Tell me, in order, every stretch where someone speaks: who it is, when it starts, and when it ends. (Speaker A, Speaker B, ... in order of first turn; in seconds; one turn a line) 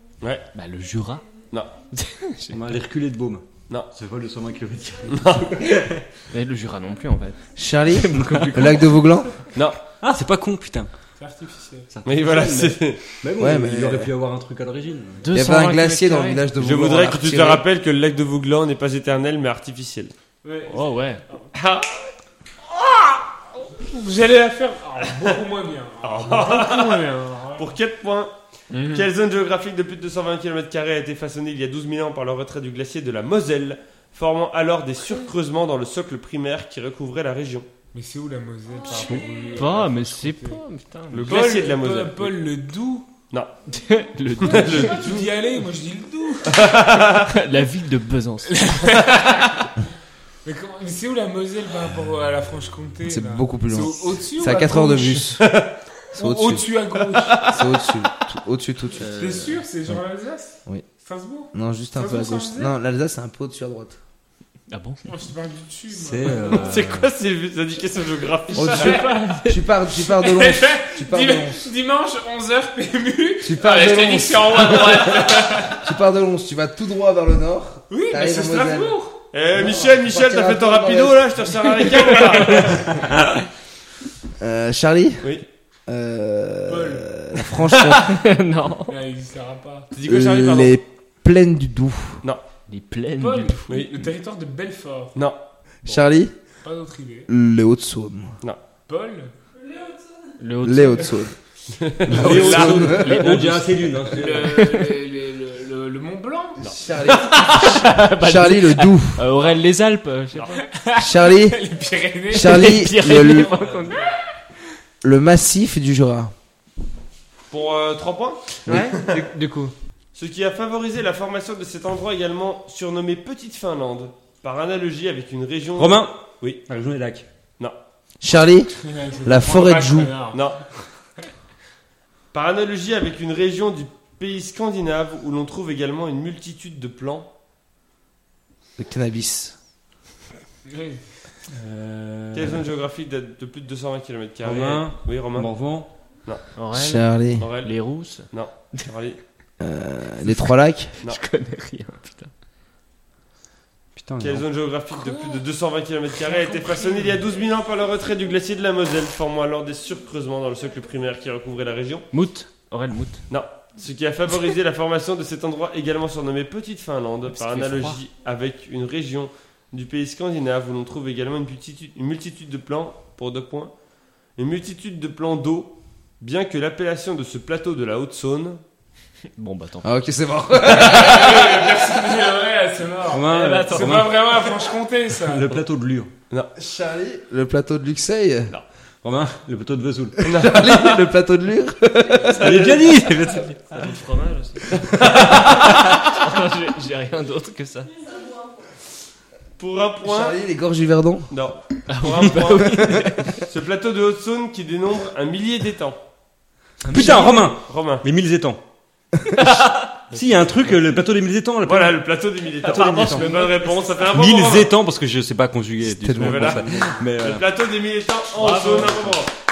Speaker A: 0.5-1.2
Speaker A: 1.9-2.6
Speaker B: 2.5-6.0
Speaker C: 5.1-5.6
Speaker A: 6.3-9.0
Speaker D: 7.6-9.4
Speaker B: 10.0-10.9
Speaker E: 11.2-11.9
Speaker B: 11.9-15.3
Speaker C: 12.1-13.0
Speaker D: 13.4-14.1
Speaker A: 15.2-16.4
Speaker D: 15.3-17.6
Speaker C: 16.6-20.1
Speaker E: 20.4-21.5
Speaker A: 20.7-21.2
Speaker C: 21.5-22.1
Speaker E: 22.8-27.7
Speaker C: 26.0-37.7
Speaker E: 28.7-29.1
Speaker E: 37.9-40.6
Speaker A: 39.0-41.4
Speaker B: 39.0-39.2
Speaker C: 41.1-42.4
Speaker E: 41.2-43.1
Speaker A: 43.7-45.1
Speaker C: 44.4-45.3
Speaker E: 44.5-46.8
Speaker C: 46.5-47.3
Speaker A: 47.2-49.2
Speaker E: 48.5-49.7
Speaker E: 50.4-55.4
Speaker D: 53.1-55.4
Speaker C: 55.4-55.7
Speaker E: 56.1-57.5
Speaker D: 56.1-56.7
Speaker C: 57.1-57.8
Speaker D: 57.4-59.4
Speaker B: 59.0-59.5
Speaker E: 59.2-62.7
Speaker D: 61.5-64.0
Speaker A: 64.7-65.0
Speaker E: 65.0-66.8
Speaker B: 65.9-67.1
Speaker C: 66.5-69.0
Speaker E: 68.5-69.5
Speaker D: 68.5-71.6
Speaker A: 68.6-69.6
Speaker E: 70.0-75.8
Speaker D: 73.4-79.0
Speaker E: 77.9-79.2
Speaker C: 79.3-83.1
Speaker D: 79.5-81.3
Speaker E: 82.1-82.8
Speaker D: 84.4-85.3
Speaker D: 85.9-88.2
Speaker E: 86.7-87.1
Speaker A: 88.0-89.0
Speaker E: 88.9-89.9
Speaker C: 89.9-90.8
Speaker D: 90.0-92.2
Speaker A: 92.7-93.8
Speaker E: 93.2-95.2
Speaker D: 95.8-96.3
Speaker E: 96.6-97.3
Speaker D: 97.3-98.3
Speaker E: 98.9-99.3
Speaker A: 100.4-101.2
Speaker D: 100.6-101.3
Speaker C: 101.8-103.1
Speaker D: 102.1-103.3
Speaker B: 102.1-104.6
Speaker A: 102.2-105.0
Speaker E: 103.0-103.5
Speaker E: 104.0-106.6
Speaker C: 106.6-107.7
Speaker D: 106.6-109.2
Speaker A: 107.4-110.6
Speaker E: 110.6-114.2
Speaker D: 111.0-111.6
Speaker D: 112.3-113.5
Speaker A: 112.3-114.1
Speaker D: 115.0-116.3
Speaker C: 117.5-119.2
Speaker A: 118.7-119.7
Speaker B: 118.7-119.3
Speaker C: 120.2-126.6
Speaker B: 125.8-127.3
Speaker D: 128.2-130.2
Speaker E: 128.8-130.5
Speaker C: 130.3-130.6
Speaker C: 132.3-137.3
Speaker D: 138.8-139.6
Speaker E: 140.7-141.0
Speaker B: 141.5-142.7
Speaker C: 142.3-145.5
Speaker B: 144.4-145.9
Speaker A: 146.6-148.8
Speaker D: 146.7-147.5
Speaker C: 147.4-149.2
Speaker D: 149.6-150.9
Speaker A: 150.9-152.3
Speaker B: 154.0-154.4
Speaker C: 154.2-162.1
Speaker E: 156.5-157.1
Speaker A: 162.1-163.2
Speaker C: 163.3-173.7
Speaker A: 167.3-168.0
Speaker C: 174.4-178.6
Speaker A: 179.4-179.9
Speaker D: 179.8-181.6
Speaker E: 180.7-185.6
Speaker B: 183.1-184.4
Speaker A: 183.3-184.2
Speaker B: 185.2-186.1
Speaker D: 186.6-188.5
Speaker B: 189.0-190.2
Speaker D: 190.2-192.6
Speaker C: 190.2-191.0
Speaker C: 192.2-193.1
Speaker B: 192.3-193.8
Speaker A: 193.7-197.9
Speaker C: 194.7-196.1
Speaker C: 199.6-200.4
Speaker D: 200.1-201.3
Speaker C: 201.3-206.0
Speaker A: 201.9-203.4
Speaker A: 206.8-207.6
Speaker B: 206.9-208.6
Speaker C: 207.0-208.1
Speaker A: 209.3-210.0
Speaker B: 210.1-212.0
Speaker C: 211.6-214.7
Speaker A: 212.6-214.0
Speaker B: 212.7-213.3
Speaker B: 214.1-217.4
Speaker D: 215.8-217.0
Speaker C: 216.1-219.3
Speaker A: 218.3-219.2